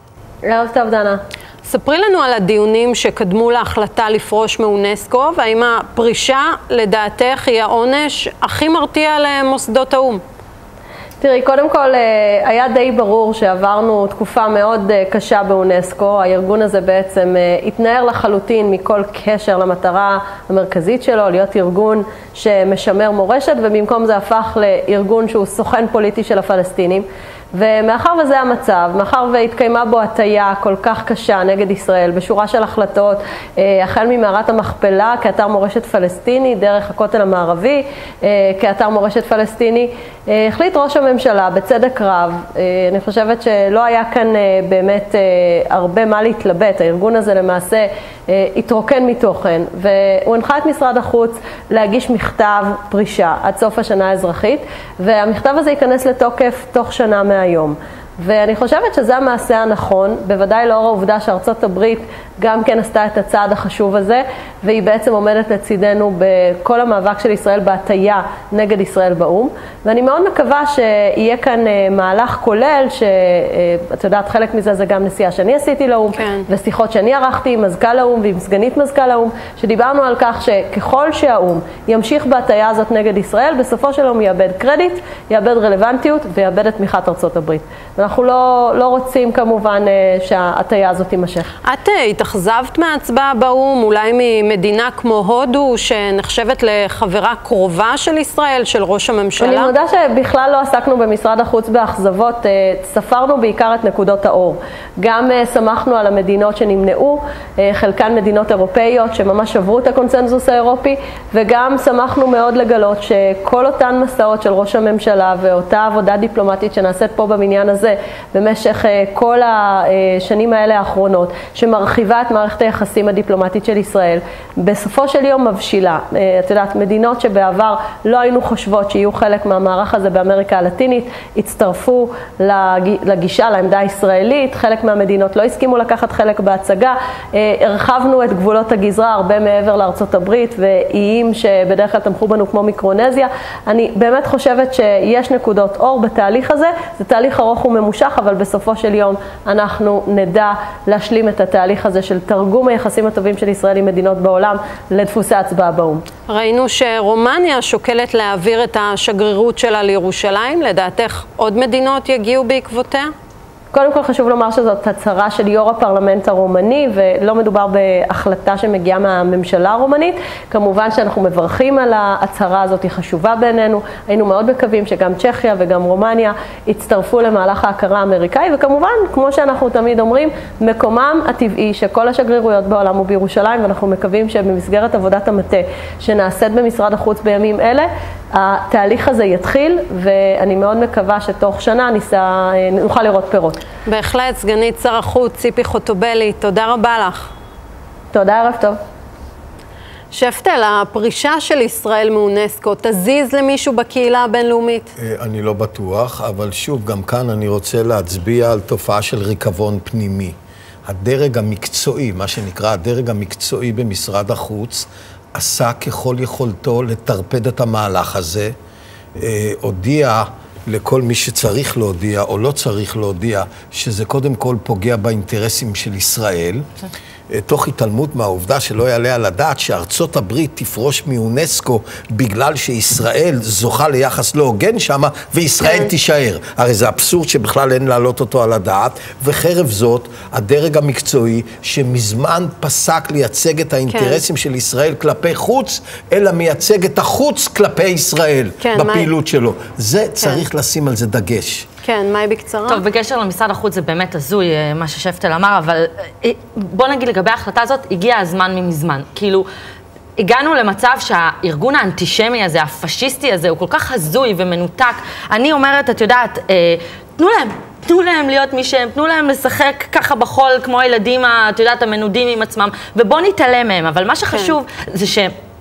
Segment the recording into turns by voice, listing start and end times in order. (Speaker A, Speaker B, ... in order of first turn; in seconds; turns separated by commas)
Speaker A: 0.4-1.2, Speaker B: 1.6-10.2, Speaker A: 11.2-91.5, Speaker B: 76.2-76.5, Speaker B: 91.6-99.7, Speaker A: 99.4-156.0, Speaker B: 156.3-163.1, Speaker A: 163.7-193.6, Speaker B: 193.8-197.3, Speaker A: 198.1-198.8, Speaker B: 200.1-204.9, Speaker C: 205.0-218.5, Speaker C: 219.2-226.7, Speaker C: 227.3-251.7, Speaker B: 235.6-235.9, Speaker B: 243.9-244.2, Speaker B: 248.6-249.1, Speaker B: 251.8-252.8, Speaker D: 252.7-259.4, Speaker D: 260.2-275.3